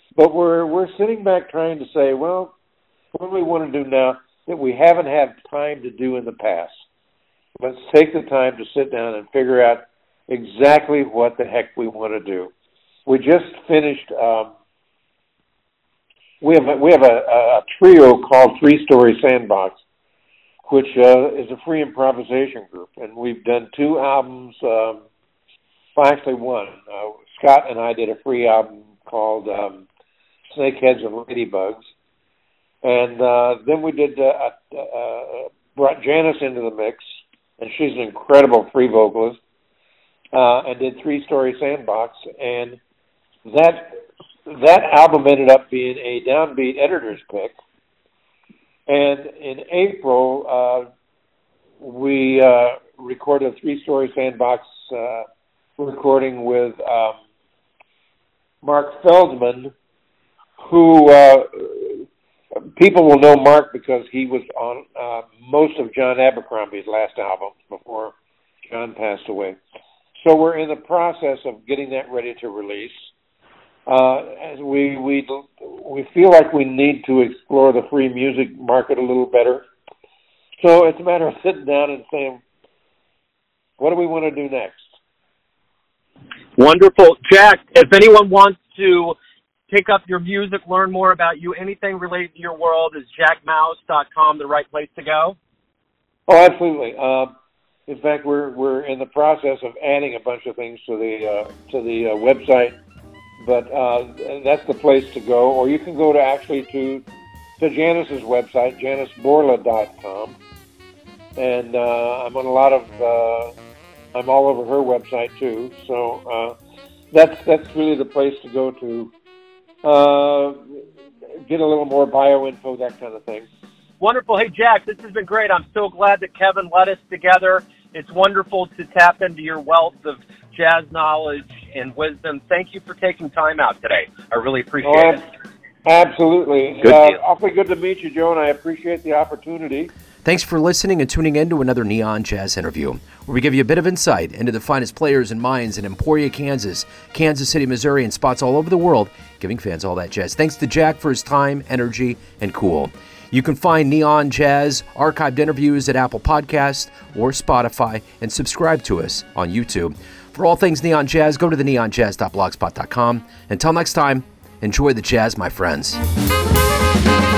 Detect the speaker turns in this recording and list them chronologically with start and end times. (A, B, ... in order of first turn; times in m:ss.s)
0:00.2-0:02.5 A
0:03.1-0:06.7 A
0:07.6-0:12.5 A
0:13.0-0:14.5 A
0:16.4-0:19.8 A
0:20.7-0:25.0 A
0:25.9-0:29.8 A
0:30.5-0:31.8 A
0:32.8-0:37.0 A
0:37.6-0:39.4 A
0:40.3-0:42.8 A
0:43.4-0:47.6 A
0:48.9-0:50.9 A
0:51.8-0:55.2 A
0:55.8-0:57.2 A
0:58.6-0:59.7 A
1:00.6-1:02.0 A
1:02.8-1:08.1 A
1:08.7-1:09.6 A
1:10.2-1:13.1 A
1:13.9-1:19.6 A
1:20.6-1:22.4 A
1:23.8-1:24.8 A
1:26.6-1:29.1 B
1:29.7-1:35.4 B
1:36.3-1:37.3 A
1:37.9-1:42.7 A
1:43.4-1:47.0 A
1:47.6-1:50.4 A
1:51.4-1:53.5 A
1:54.1-1:56.5 A
1:57.1-1:59.1 A
1:59.8-2:00.8 A
2:01.5-2:03.5 A
2:04.0-2:15.2 B
2:14.8-2:15.2 A
2:15.8-2:19.9 A
2:16.8-2:17.2 B
2:20.2-2:46.0 C